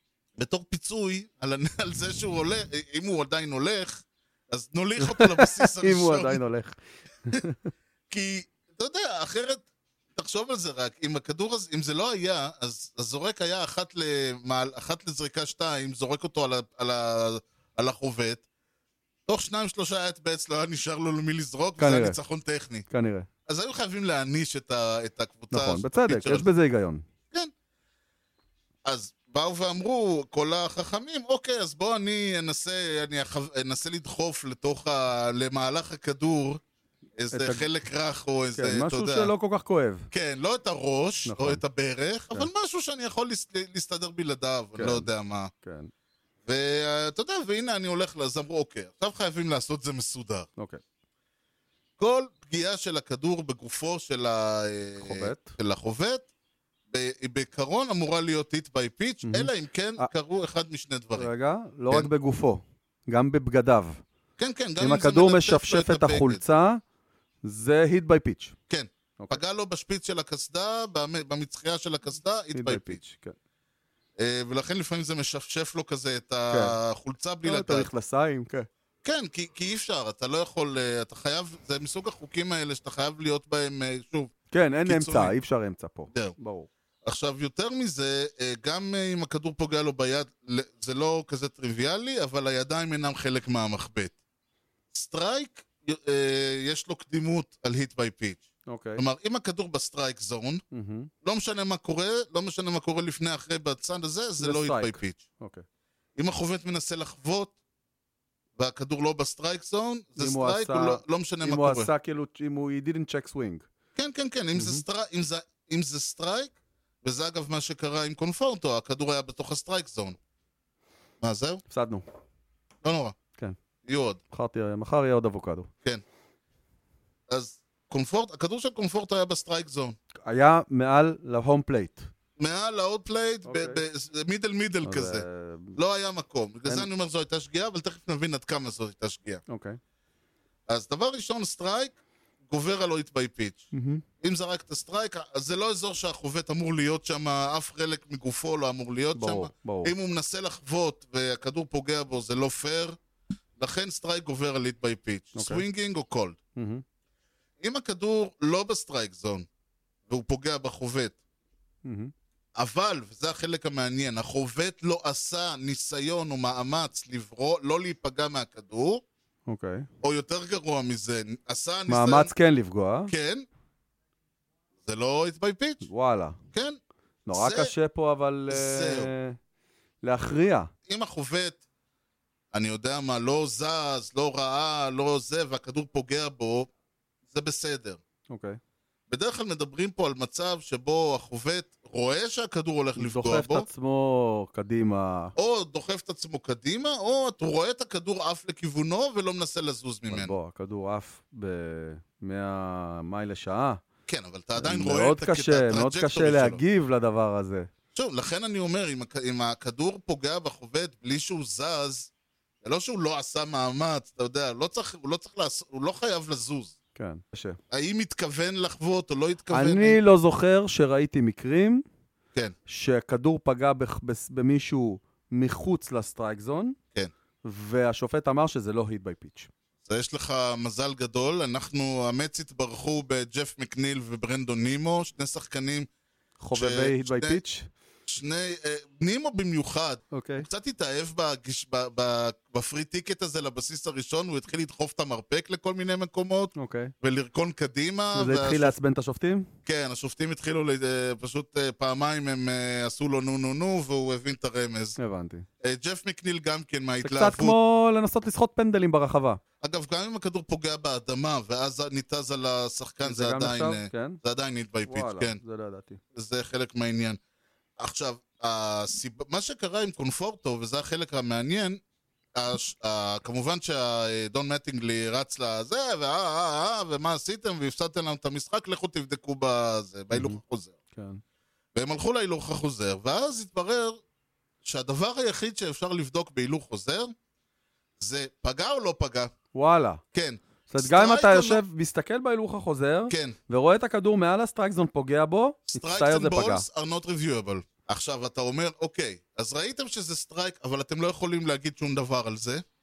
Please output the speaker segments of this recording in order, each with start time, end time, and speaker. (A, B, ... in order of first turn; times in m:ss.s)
0:00.4-0:06.4 A
0:05.0-0:07.7 B
0:08.1-0:09.6 A
0:10.2-0:18.4 A
0:19.3-0:22.9 A
0:21.8-0:22.2 B
0:22.9-0:23.3 B
0:23.4-0:26.5 A
0:25.5-0:27.0 B
0:28.8-0:36.6 A
0:37.2-0:39.3 A
0:37.3-0:37.6 B
0:38.6-0:40.1 B
0:40.1-0:45.5 A
0:41.2-0:41.6 B
0:44.8-0:45.1 B
0:45.6-0:45.9 B
0:46.4-0:50.5 A
0:52.0-0:56.3 A
0:55.0-0:55.5 B
0:56.9-1:01.3 A
0:59.2-1:00.1 B
1:01.2-1:04.0 B
1:04.4-1:06.4 A
1:04.8-1:06.8 B
1:07.4-1:08.5 B
1:08.7-1:13.0 A
1:12.5-1:13.4 B
1:14.2-1:17.9 A
1:16.5-1:16.8 B
1:17.4-1:18.7 B
1:19.0-1:24.3 A
1:24.5-1:26.7 B
1:24.8-1:25.3 A
1:27.0-1:34.1 A
1:34.9-1:38.4 A
1:38.7-1:39.0 B
1:39.0-1:40.6 A
1:40.7-1:41.1 B
1:41.2-1:45.2 A
1:44.4-1:45.6 B
1:46.2-1:47.5 A
1:48.6-1:51.9 A
1:50.2-1:53.6 B
1:54.0-2:00.2 A
1:54.5-1:54.8 B
2:01.2-2:01.6 A
2:01.7-2:02.0 B
2:02.8-2:03.2 A
2:03.8-2:04.2 A
2:04.3-2:05.7 B
2:07.3-2:10.0 A
2:10.3-2:12.1 B
2:12.4-2:19.4 A
2:13.4-2:13.8 B
2:14.8-2:15.8 B
2:19.5-2:19.8 B
2:20.7-2:22.0 A
2:22.5-2:23.7 A
2:23.7-2:24.0 B
2:24.2-2:33.0 A
2:29.1-2:29.9 B
2:33.6-2:36.4 A
2:35.4-2:35.6 B
2:36.6-2:36.8 B
2:37.6-2:39.5 A
2:40.1-2:41.2 A
2:41.8-2:42.1 B
2:42.6-2:49.0 A
2:49.5-2:49.9 B
2:50.0-2:52.3 A
2:51.9-2:53.1 B
2:53.1-2:53.4 A
2:54.8-2:55.8 A
2:55.8-2:56.4 B
2:56.5-2:56.8 A
2:57.2-2:59.4 B
2:57.3-2:57.7 A
2:58.5-2:59.1 A
3:00.0-3:00.7 B
3:00.9-3:01.6 A
3:02.5-3:06.7 A
3:07.3-3:08.0 A
3:08.3-3:08.6 B
3:09.1-3:13.7 A
3:13.0-3:15.3 B
3:15.4-3:20.3 A
3:20.1-3:23.8 B
3:24.1-3:26.6 A
3:24.6-3:27.7 B
3:27.9-3:32.1 A
3:32.6-3:36.7 A
3:37.0-3:37.6 B
3:37.7-3:40.0 A
3:39.5-3:41.8 B
3:42.7-3:46.8 B
3:47.4-3:49.5 B
3:49.8-3:55.9 A
3:56.4-3:57.7 B
3:56.5-3:57.4 A
3:58.1-4:08.7 A
4:00.1-4:00.5 B
4:06.6-4:06.9 B
4:08.1-4:09.5 B
4:09.6-4:15.0 A
4:15.0-4:15.4 B
4:15.6-4:17.6 A
4:17.0-4:19.4 B
4:19.6-4:25.4 A
4:23.0-4:24.2 B
4:24.8-4:26.0 B
4:26.1-4:27.2 A
4:27.8-4:31.8 A
4:32.3-4:40.7 A
4:40.1-4:40.4 B
4:40.9-4:41.2 B
4:41.7-4:44.0 A
4:44.6-4:47.1 A
4:48.0-4:49.3 A
4:49.5-4:50.0 B
4:50.1-4:51.6 A
4:50.7-4:56.6 B
4:53.1-4:53.4 A
4:55.7-5:02.6 A